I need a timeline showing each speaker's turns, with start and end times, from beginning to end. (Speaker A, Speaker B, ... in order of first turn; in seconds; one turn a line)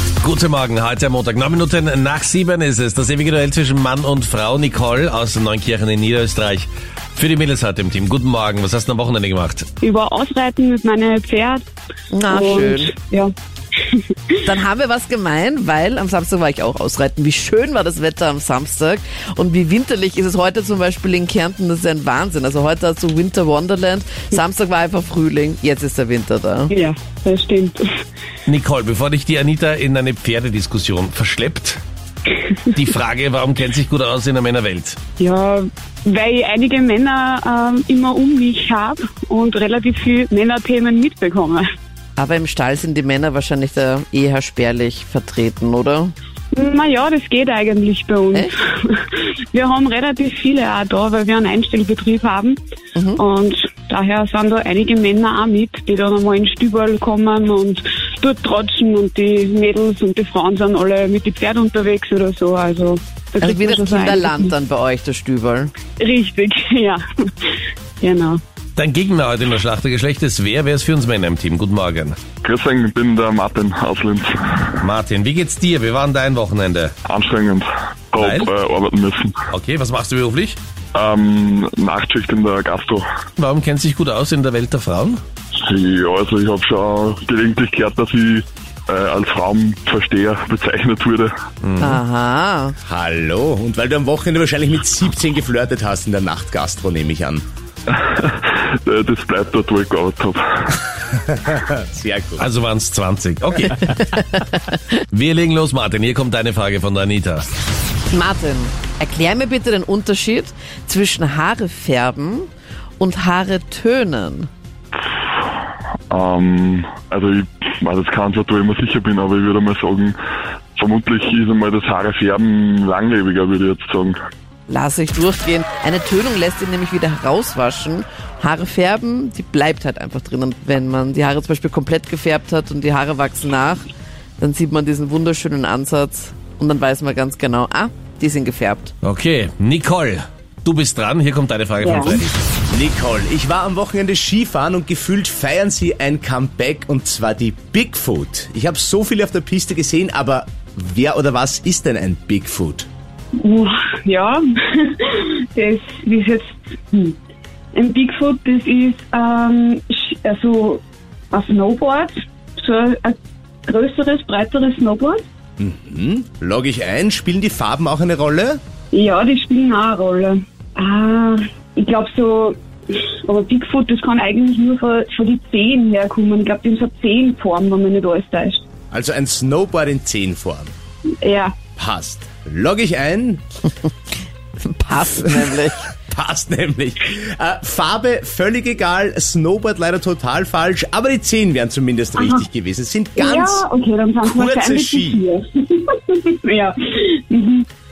Speaker A: 0.2-9.7
Speaker B: 9.8-11.7
Speaker C: 12.1-12.9
Speaker B: 12.3-13.3
Speaker B: 13.9-14.4
Speaker C: 14.5-26.7
Speaker B: 26.7-27.9
Speaker A: 28.5-31.8
Speaker A: 32.7-35.0
Speaker B: 35.2-41.7
Speaker C: 42.2-46.1
Speaker B: 46.5-52.6
Speaker C: 53.0-53.2
Speaker B: 53.2-64.5
Speaker C: 63.4-65.7
Speaker B: 66.0-68.4
Speaker A: 68.8-72.2
Speaker D: 72.4-74.8
Speaker A: 74.8-76.9
Speaker D: 77.1-79.3
Speaker A: 78.2-78.5
Speaker A: 79.5-80.6
Speaker D: 80.9-83.0
Speaker A: 83.4-85.2
Speaker D: 85.6-91.3
Speaker A: 91.6-92.0
Speaker C: 91.8-92.8
Speaker E: 92.8-97.4
Speaker D: 97.9-100.8
Speaker E: 101.3-102.5
Speaker A: 102.4-104.2
Speaker C: 104.1-104.6
Speaker A: 105.1-107.5
Speaker C: 108.1-114.5
Speaker D: 116.1-120.2
Speaker D: 120.8-124.2
Speaker C: 124.7-133.8
Speaker C: 134.4-138.9
Speaker A: 139.0-142.4
Speaker B: 141.8-142.2
Speaker E: 142.7-152.9
Speaker B: 153.4-157.2
Speaker B: 157.7-165.3
Speaker E: 165.6-168.6
Speaker B: 168.9-178.6
Speaker E: 178.9-180.7
Speaker B: 181.2-181.6
Speaker E: 181.8-183.4
Speaker C: 184.6-185.8
Speaker E: 185.3-193.6
Speaker B: 192.2-192.4
Speaker B: 193.2-197.7
Speaker E: 194.2-195.2